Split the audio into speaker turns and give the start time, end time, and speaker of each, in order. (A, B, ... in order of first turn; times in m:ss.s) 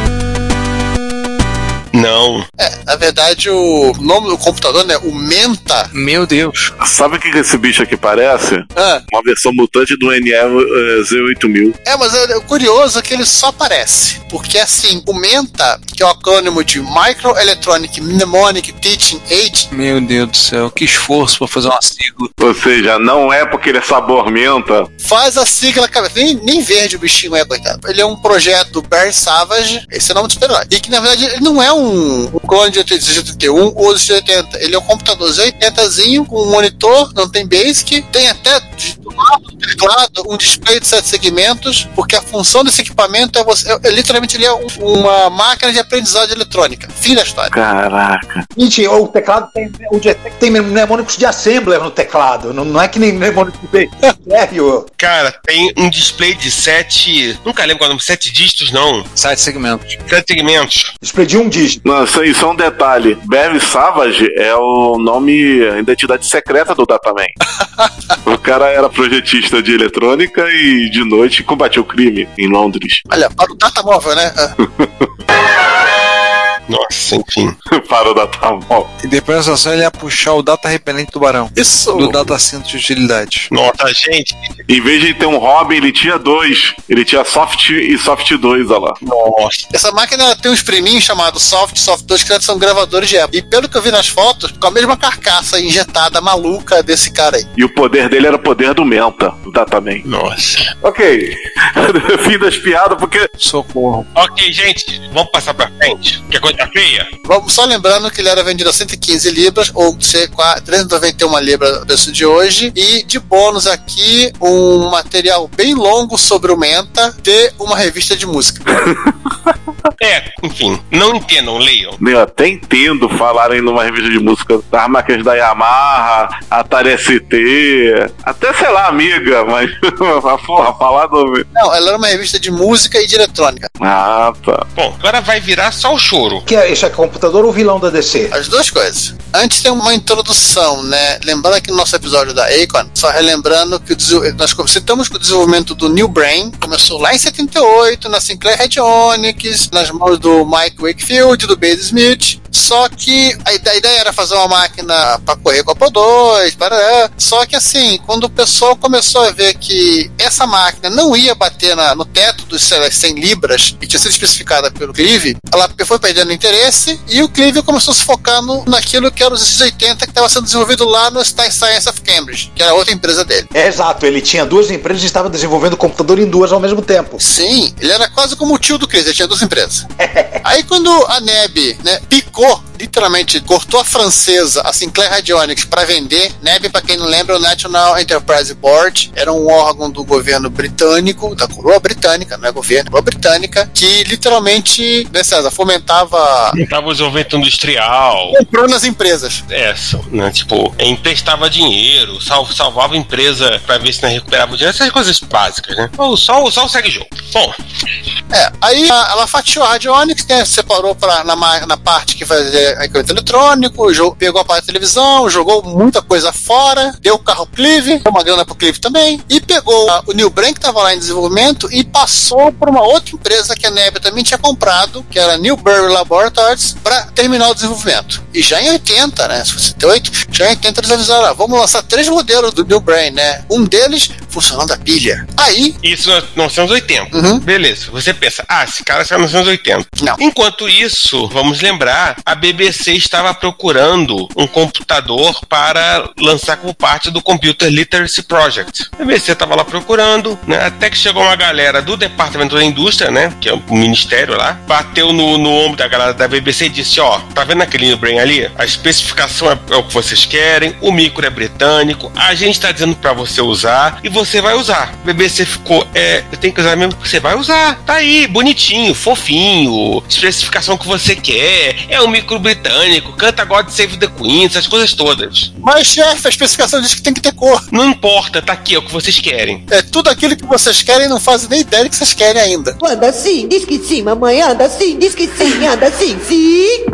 0:01.9-0:02.4 A
0:02.6-0:05.9 B
0:05.9-0:06.7 C
0:06.8-0:11.8 D
0:08.7-0:09.0 B
0:11.8-0:19.7 B
0:19.7-0:22.3 C
0:22.4-0:24.9 D
0:25.0-0:47.5 B
0:47.5-0:48.4 D
0:48.6-0:54.9 E
0:55.0-0:59.1 A
0:59.2-0:59.9 C
1:00.1-1:00.9 A
1:01.0-1:01.8 E
1:01.8-1:07.4 D
1:08.2-1:13.0 D
1:13.1-1:14.5 B
1:14.6-1:15.1 D
1:16.7-1:17.6 A
1:17.7-1:18.9 D
1:19.0-1:23.5 C
1:21.6-1:22.2 B
1:23.5-1:24.6 A
1:24.7-1:29.0 D
1:29.0-1:29.6 A
1:29.7-1:37.5 B
1:37.6-1:40.0 D
1:40.0-1:40.7 A
1:40.8-1:43.3 D
1:43.4-1:44.1 C
1:44.1-1:47.1 A
1:47.2-1:58.8 B
2:00.0-2:02.0 A
2:02.0-2:11.4 D
2:11.5-2:13.7 B
2:13.8-2:14.7 D
2:14.8-2:16.4 A
2:16.4-2:18.3 E
2:18.3-2:53.5 B
2:53.5-2:57.2 E
2:57.2-2:59.8 B
3:00.0-3:00.4 E
3:00.4-3:16.6 B
3:16.5-3:18.4 A
3:18.3-3:19.4 B
3:19.5-3:27.6 A
3:28.3-3:55.8 B
3:55.8-4:35.5 A
3:57.1-3:57.4 B
4:35.6-4:37.6 B
4:37.7-4:39.6 A
4:39.7-4:42.8 B
4:42.8-4:46.8 F